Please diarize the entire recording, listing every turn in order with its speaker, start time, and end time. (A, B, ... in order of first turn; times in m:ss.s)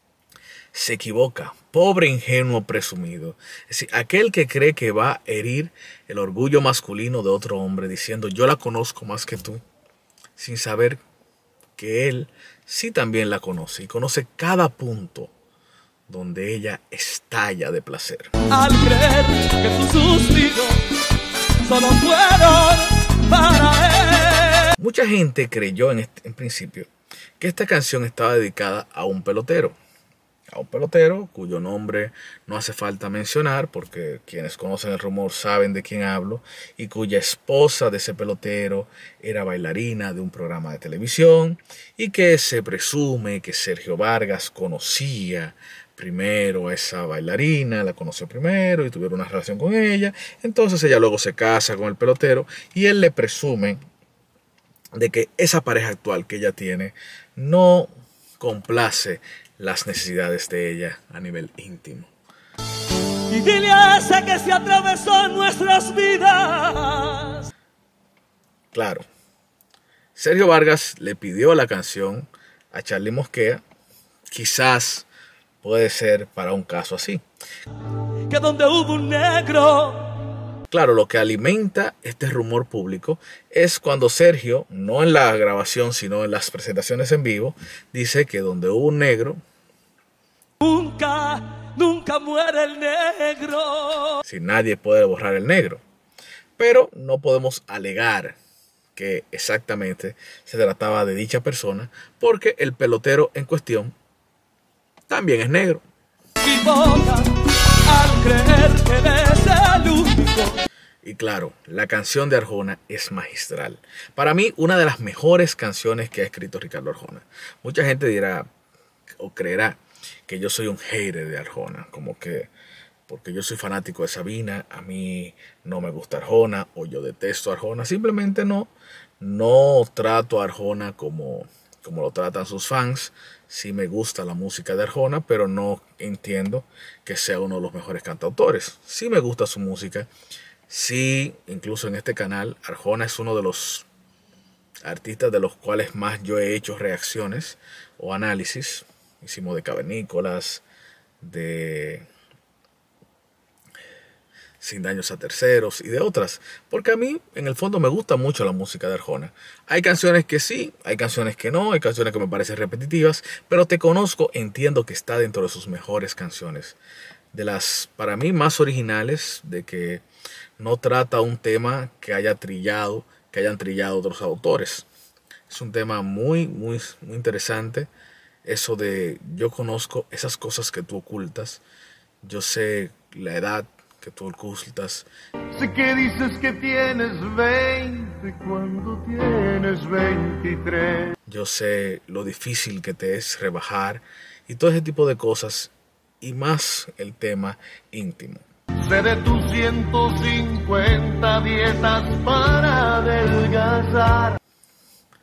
0:00.7-0:09.6 A
0:10.4-0:11.0 A
0:11.8-0:15.3 A
0:16.1-0:18.3 A
0:18.5-0:20.8 B
0:21.6-0:24.7 B
0:24.8-0:29.7 A
0:30.5-0:53.8 A
0:54.9-1:02.1 A
1:03.3-1:07.5 B
1:08.7-1:09.0 A
1:10.2-1:13.6 A
1:14.3-1:15.1 A
1:15.6-1:17.2 A
1:18.3-1:20.2 B
1:20.7-1:29.4 A
1:30.6-1:34.2 B
1:34.2-1:35.8 A
1:36.6-1:38.4 A
1:39.0-1:43.9 A
1:45.1-1:45.8 A
1:46.4-1:47.3 B
1:47.9-1:50.6 B
1:51.0-1:58.5 A
1:59.2-2:02.5 A
2:03.1-2:20.1 A
2:20.7-2:23.8 A
2:24.8-2:30.6 A
2:31.2-2:32.1 A
2:34.6-2:46.8 A
2:47.3-2:50.0 A
2:50.6-2:54.9 A
2:55.5-2:57.9 A
2:58.4-3:01.6 A
3:02.2-3:05.1 A
3:05.5-3:11.2 C
3:11.3-3:18.4 A
3:18.8-3:24.4 C